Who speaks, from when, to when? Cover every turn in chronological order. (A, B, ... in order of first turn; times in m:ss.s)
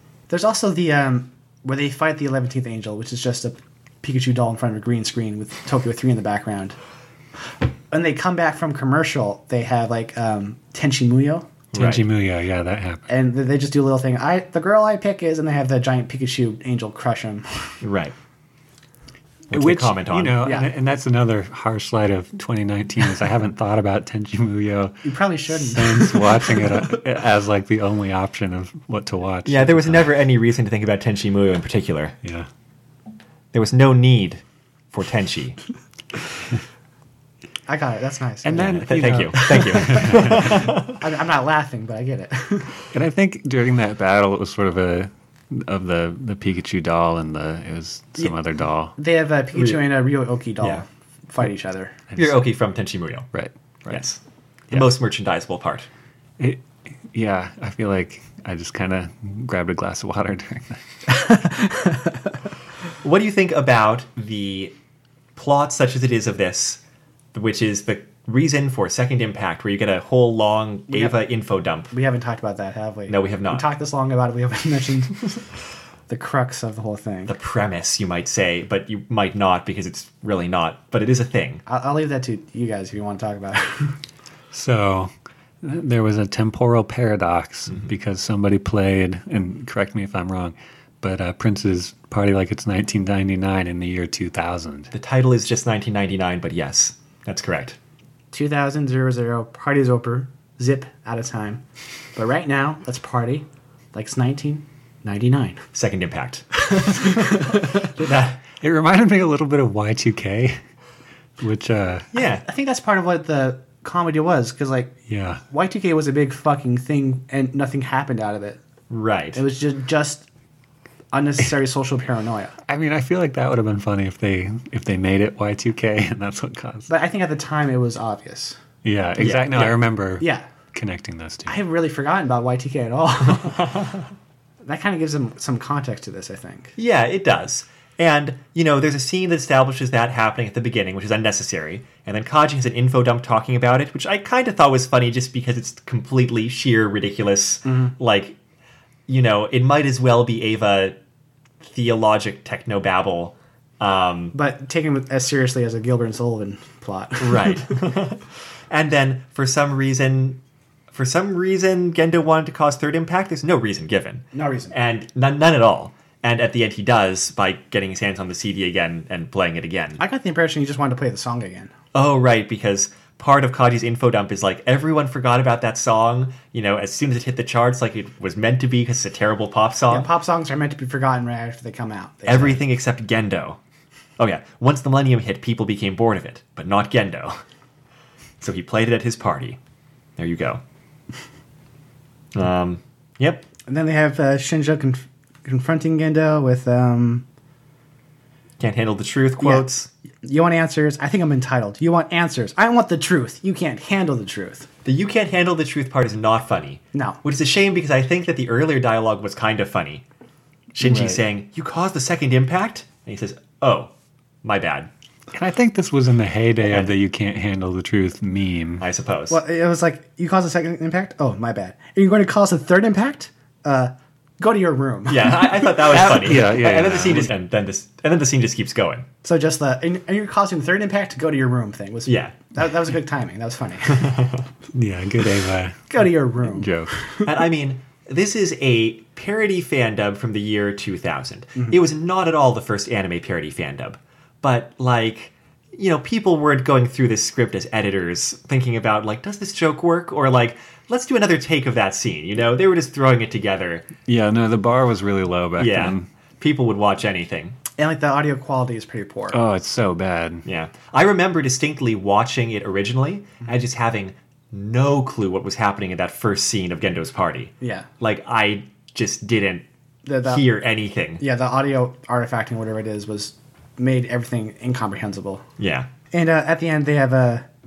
0:00.3-0:06.8 A
0:07.9-0:11.5 A
0:11.7-0:12.0 B
0:11.7-0:13.1 C
0:13.1-0:17.8 A
0:17.8-0:18.1 B
0:19.5-0:20.4 B
0:19.5-0:30.1 C
0:20.4-0:20.7 A
0:25.0-0:26.8 A
0:29.4-0:32.1 B
0:32.2-0:32.5 C
0:33.5-0:35.6 B
0:37.7-0:42.8 A
0:38.4-0:40.7 C
0:38.8-0:41.0 B
0:42.9-0:48.9 C
0:49.0-0:51.9 A
0:49.5-0:49.9 B
0:52.2-0:53.3 B
0:53.3-0:54.0 C
0:53.9-0:54.2 B
0:54.7-0:55.9 B
0:56.4-1:00.8 C
1:01.2-1:01.9 A
1:03.0-1:04.7 B
1:05.4-1:06.8 B
1:07.3-1:11.9 B
1:10.9-1:11.2 A
1:11.9-1:15.4 A
1:13.1-1:13.7 B
1:16.1-1:17.3 A
1:17.3-1:21.6 B
1:21.7-1:24.0 A
1:24.5-1:34.9 C
1:34.9-1:37.8 B
1:38.3-1:41.6 A
1:42.2-1:45.6 A
1:45.7-1:48.4 B
1:46.6-1:47.8 A
1:48.6-1:50.6 C
1:51.4-1:52.1 C
1:52.1-1:52.4 B
1:52.2-1:54.9 A
1:55.1-1:55.4 C
1:55.5-1:58.6 A
1:58.9-1:59.4 B
1:59.3-2:00.3 A
2:01.1-2:02.6 A
2:02.7-2:06.9 C
2:06.9-2:08.6 A
2:08.8-2:11.6 C
2:09.2-2:09.8 B
2:10.2-2:10.4 A
2:11.5-2:13.9 A
2:14.6-2:16.8 A
2:16.8-2:28.4 B
2:27.6-2:27.9 A
2:29.1-2:31.0 B
2:31.6-2:34.3 B
2:34.3-2:37.8 A
2:37.2-2:40.4 B
2:40.9-2:50.0 B
2:44.3-2:44.7 A
2:50.0-2:51.7 A
2:51.9-3:00.1 B
2:59.9-3:02.6 A
3:02.3-3:03.6 B
3:04.2-3:07.4 B
3:08.4-3:09.6 B
3:10.2-3:10.6 B
3:12.3-3:13.4 B
3:13.6-3:17.2 A
3:18.6-3:19.9 B
3:19.4-3:19.7 A
3:20.2-3:24.7 A
3:24.8-3:30.0 B
3:26.9-3:27.2 A
3:30.7-3:33.9 B
3:30.8-3:31.2 C
3:34.4-3:34.9 B
3:35.3-3:38.8 C
3:38.8-3:39.4 B
3:39.3-3:45.8 A
3:45.1-3:49.0 B
3:45.9-3:47.3 C
3:49.2-3:54.3 A
3:52.0-3:52.4 B
3:54.0-3:54.4 B
3:54.7-3:56.9 C
3:55.9-3:57.3 A
3:57.2-4:13.9 B
4:14.0-4:16.1 C
4:15.6-4:17.6 B
4:17.8-4:19.4 A
4:19.3-4:20.4 C
4:20.4-4:29.6 B
4:27.6-4:27.9 A
4:30.0-4:30.4 A
4:30.2-4:31.2 B
4:31.2-4:35.4 A
4:35.6-4:35.9 B
4:36.1-4:37.5 A